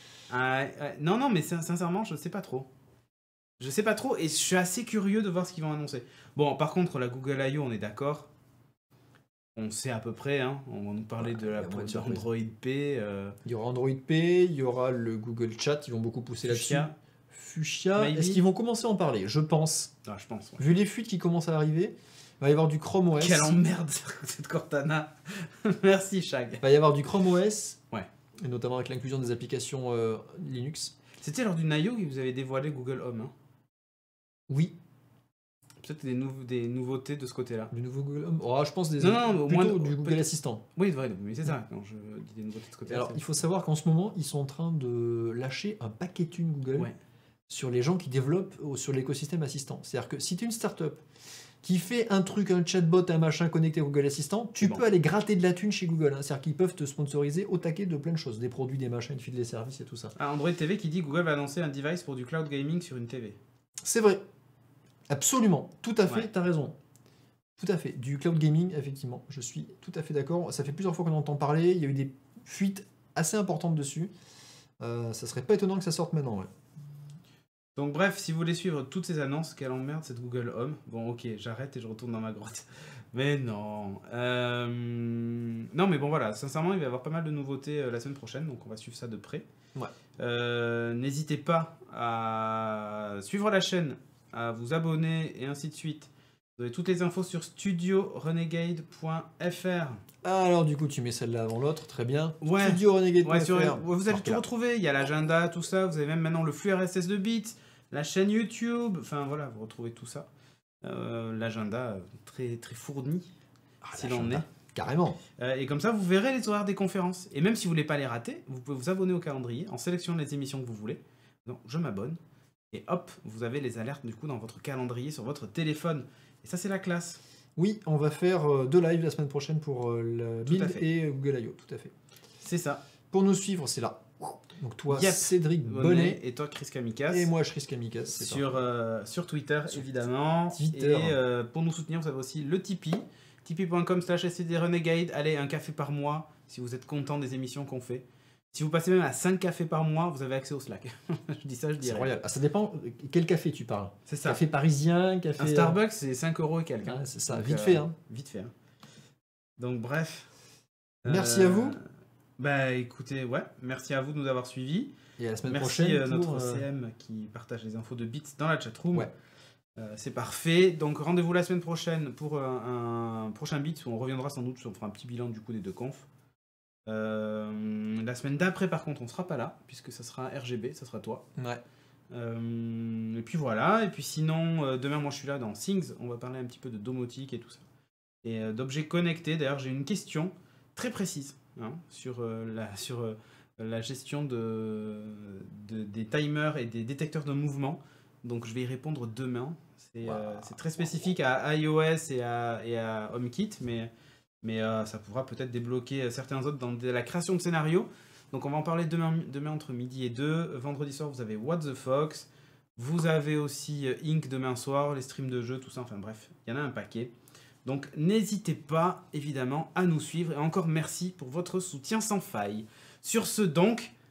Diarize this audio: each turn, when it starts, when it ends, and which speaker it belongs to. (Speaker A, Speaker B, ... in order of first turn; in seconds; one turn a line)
Speaker A: 0.3-2.7
Speaker A: 3.6-8.3
Speaker A: 9.6-13.3
Speaker B: 11.2-12.3
Speaker B: 13.4-19.9
Speaker A: 16.4-16.9
Speaker A: 17.9-18.4
Speaker A: 20.1-20.6
Speaker B: 20.6-23.5
Speaker A: 23.2-26.6
Speaker B: 26.6-27.8
Speaker B: 28.4-30.9
Speaker A: 31.2-33.3
Speaker B: 34.5-34.7
Speaker A: 35.8-37.7
Speaker B: 37.7-40.6
Speaker A: 39.0-40.2
Speaker A: 40.7-43.3
Speaker B: 42.9-46.9
Speaker B: 47.5-51.0
Speaker B: 51.6-60.1
Speaker A: 60.1-63.4
Speaker B: 63.8-64.2
Speaker B: 65.1-66.8
Speaker B: 67.6-74.1
Speaker B: 74.8-76.5
Speaker A: 77.8-89.4
Speaker A: 90.2-100.0
Speaker B: 100.2-104.4
Speaker A: 102.4-110.3
Speaker A: 110.8-113.3
Speaker B: 113.8-115.2
Speaker A: 113.9-114.5
Speaker A: 115.4-122.2
Speaker A: 122.7-127.2
Speaker B: 127.5-131.9
Speaker A: 130.4-130.8
Speaker A: 132.4-132.8
Speaker B: 133.1-136.2
Speaker A: 134.9-137.3
Speaker B: 137.1-138.6
Speaker A: 138.1-152.1
Speaker B: 140.5-141.2
Speaker B: 151.8-155.8
Speaker A: 154.1-154.4
Speaker A: 155.4-158.5
Speaker B: 156.8-157.9
Speaker A: 159.6-160.3
Speaker A: 161.0-161.8
Speaker B: 161.1-161.8
Speaker A: 162.4-164.9
Speaker B: 165.2-166.7
Speaker A: 165.5-169.1
Speaker A: 169.8-176.1
Speaker A: 176.9-181.2
Speaker B: 181.3-181.6
Speaker A: 182.1-187.6
Speaker A: 188.2-203.9
Speaker B: 200.0-201.1
Speaker A: 204.4-217.1
Speaker A: 217.6-223.9